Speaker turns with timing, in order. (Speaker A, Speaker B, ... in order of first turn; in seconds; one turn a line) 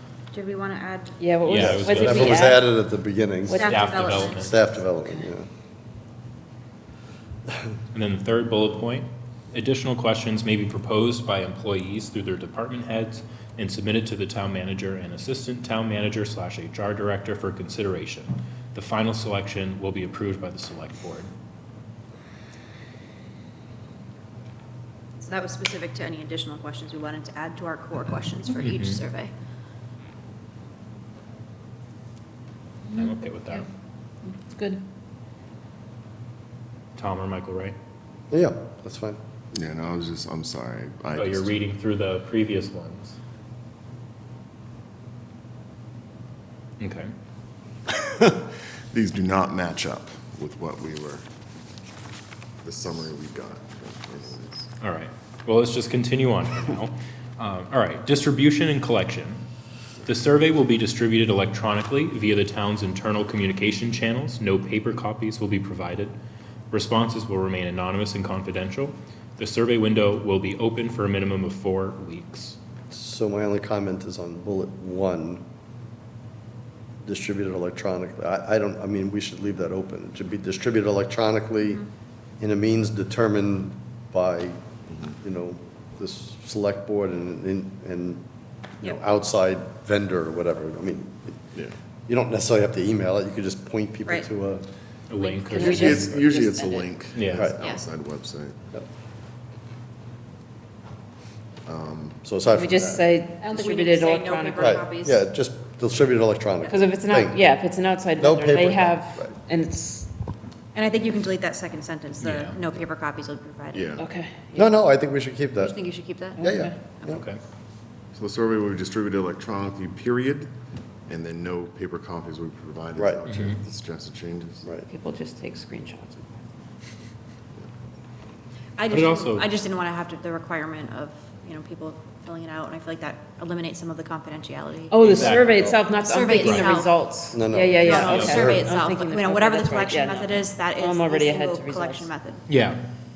Speaker A: 0.3-2.4
Speaker B: 1.2-2.7
Speaker C: 1.4-2.5
Speaker D: 1.7-5.5
Speaker B: 3.5-3.8
Speaker A: 3.5-4.5
Speaker C: 3.5-4.5
Speaker C: 7.9-21.3
Speaker A: 25.2-29.3
Speaker C: 28.6-29.0
Speaker C: 32.9-33.6
Speaker B: 34.4-34.8
Speaker C: 37.0-37.7
Speaker D: 38.3-39.2
Speaker E: 39.5-41.5
Speaker C: 41.1-43.2
Speaker C: 46.8-47.1
Speaker E: 47.9-51.2
Speaker E: 52.6-54.6
Speaker C: 54.8-59.4
Speaker C: 60.0-66.1
Speaker C: 66.7-72.6
Speaker D: 72.9-75.4
Speaker D: 77.0-81.8
Speaker D: 82.4-84.6
Speaker D: 85.2-88.2
Speaker D: 88.8-91.4
Speaker D: 92.1-94.7
Speaker C: 95.1-96.2
Speaker A: 95.1-95.8
Speaker B: 95.5-96.9
Speaker E: 95.5-98.5
Speaker C: 97.1-97.5
Speaker D: 97.3-97.6
Speaker E: 101.7-102.2
Speaker D: 102.2-103.1
Speaker B: 102.5-104.8
Speaker A: 103.4-105.2
Speaker D: 104.6-107.4
Speaker B: 106.7-110.1
Speaker D: 108.2-109.3
Speaker A: 110.7-113.9
Speaker C: 112.2-112.6
Speaker E: 113.7-114.1
Speaker B: 114.0-114.7
Speaker D: 114.5-115.8
Speaker A: 115.6-116.4
Speaker B: 116.4-116.7
Speaker D: 116.4-117.2
Speaker C: 117.1-117.4
Speaker E: 118.1-120.5
Speaker E: 121.1-124.7
Speaker D: 123.0-123.2
Speaker C: 123.3-123.6
Speaker B: 124.8-126.3
Speaker A: 128.8-135.0
Speaker C: 128.9-129.5
Speaker B: 134.9-142.1
Speaker C: 135.0-136.7
Speaker A: 136.0-137.0
Speaker D: 137.3-138.7
Speaker A: 137.8-142.4
Speaker C: 138.1-138.4
Speaker C: 142.5-142.8